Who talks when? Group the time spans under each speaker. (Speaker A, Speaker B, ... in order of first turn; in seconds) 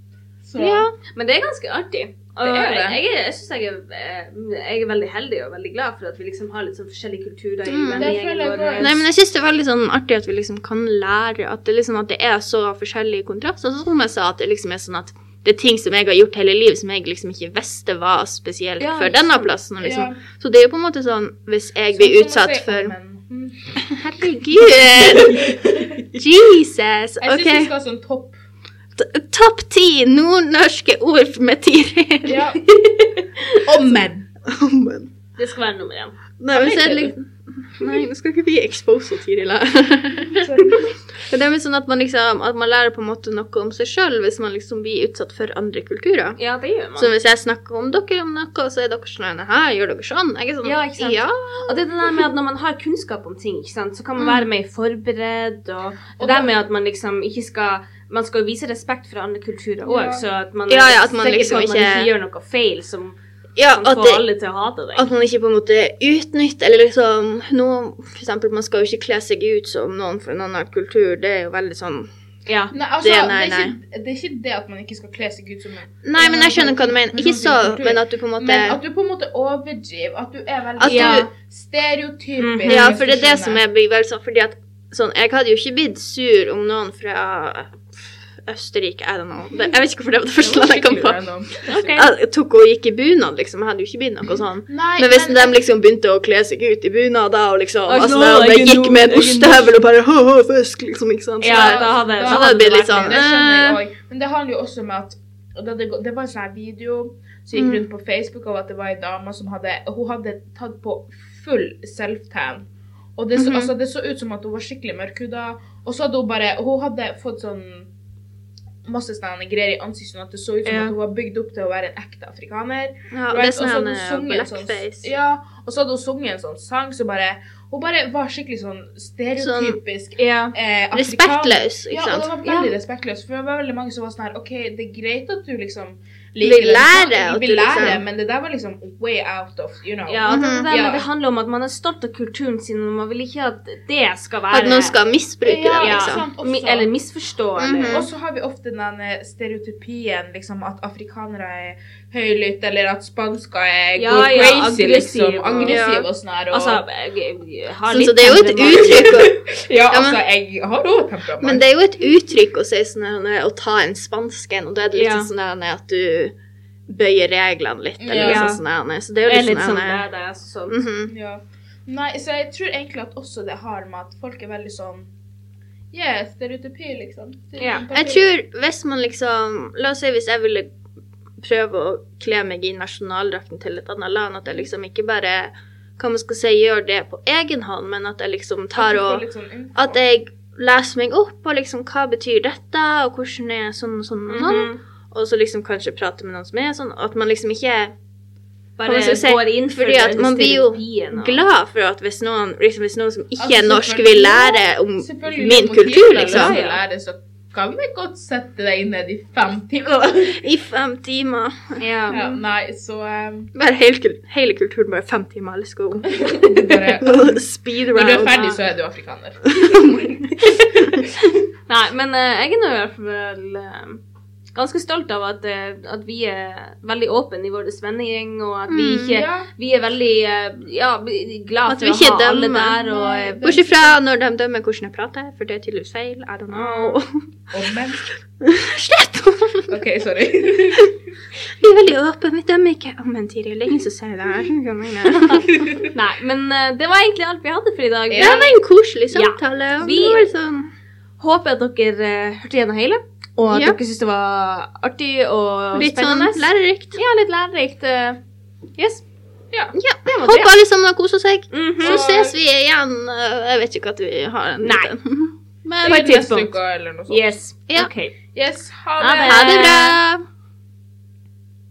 Speaker A: 0.4-0.9, 2.4-3.0, 8.0-9.0, 19.8-20.2, 21.9-24.0, 25.0-26.1, 27.2-28.3, 32.2-32.6, 33.6-34.3, 36.5-37.1, 40.3-40.8, 56.2-56.5, 59.8-60.2, 72.7-83.6, 90.4-91.9, 94.7-95.5, 101.5-112.6, 113.2-117.9, 118.8-141.1, 145.4-146.9, 147.8-156.8, 158.7-161.6, 168.0-168.5, 171.1-175.1, 175.9-178.3, 188.7-190.0, 203.4-210.4, 212.1-213.5, 216.1-220.9, 229.1-229.5, 232.8-234.0, 237.5-238.0, 239.7-240.9, 245.5-245.8, 248.1-248.4, 261.8-262.4, 265.8-267.3, 268.3-269.5
Speaker B: 0.6-0.9, 7.7-8.1, 8.8-22.9, 23.9-25.6, 26.1-27.7, 28.9-32.6, 34.5-35.1, 36.4-46.4, 47.0-51.8, 54.2-54.5, 60.7-62.1, 63.6-64.2, 64.9-72.1, 73.0-73.8, 76.0-78.8, 80.8-81.3, 82.7-91.2, 91.9-103.8, 107.5-107.8, 113.3-113.7, 123.1-125.1, 129.4-129.8, 130.9-132.3, 136.4-138.0, 140.2-140.7, 144.5-146.2, 147.6-148.1, 155.7-156.1, 157.9-159.3, 159.9-160.2, 161.4-166.3, 166.9-170.0, 170.7-171.1, 177.9-180.7, 181.4-189.2, 189.8-197.9, 198.8-206.6, 210.4-212.4, 213.5-218.5, 219.6-221.1, 228.7-229.2, 231.7-232.8, 233.4-237.3, 238.4-239.8, 241.6-245.8, 248.2-250.7, 253.5-253.8, 255.7-257.0, 259.7-266.0, 269.2-270.2
Speaker C: 1.1-9.0, 18.8-19.5, 32.7-33.6, 35.4-36.2, 46.4-47.1, 50.6-63.2, 63.7-65.1, 72.5-72.7, 80.9-81.3, 82.4-82.9, 91.7-92.1, 97.9-99.7, 101.4-103.2, 120.6-120.9, 130.2-130.5, 132.4-132.7, 140.1-144.9, 145.8-148.1, 154.0-155.8, 156.5-159.1, 164.9-165.3, 168.1-168.6, 169.2-170.8, 177.6-177.8, 194.3-194.8, 198.8-201.4, 206.3-206.8, 211.8-212.2, 221.7-224.0, 224.5-233.4, 236.5-237.0, 245.1-248.6, 249.1-250.3, 251.2-258.2, 258.8-259.0, 260.1-260.5, 261.5-262.0, 264.6-264.9, 265.8-266.5, 267.1-268.1, 269.0-270.0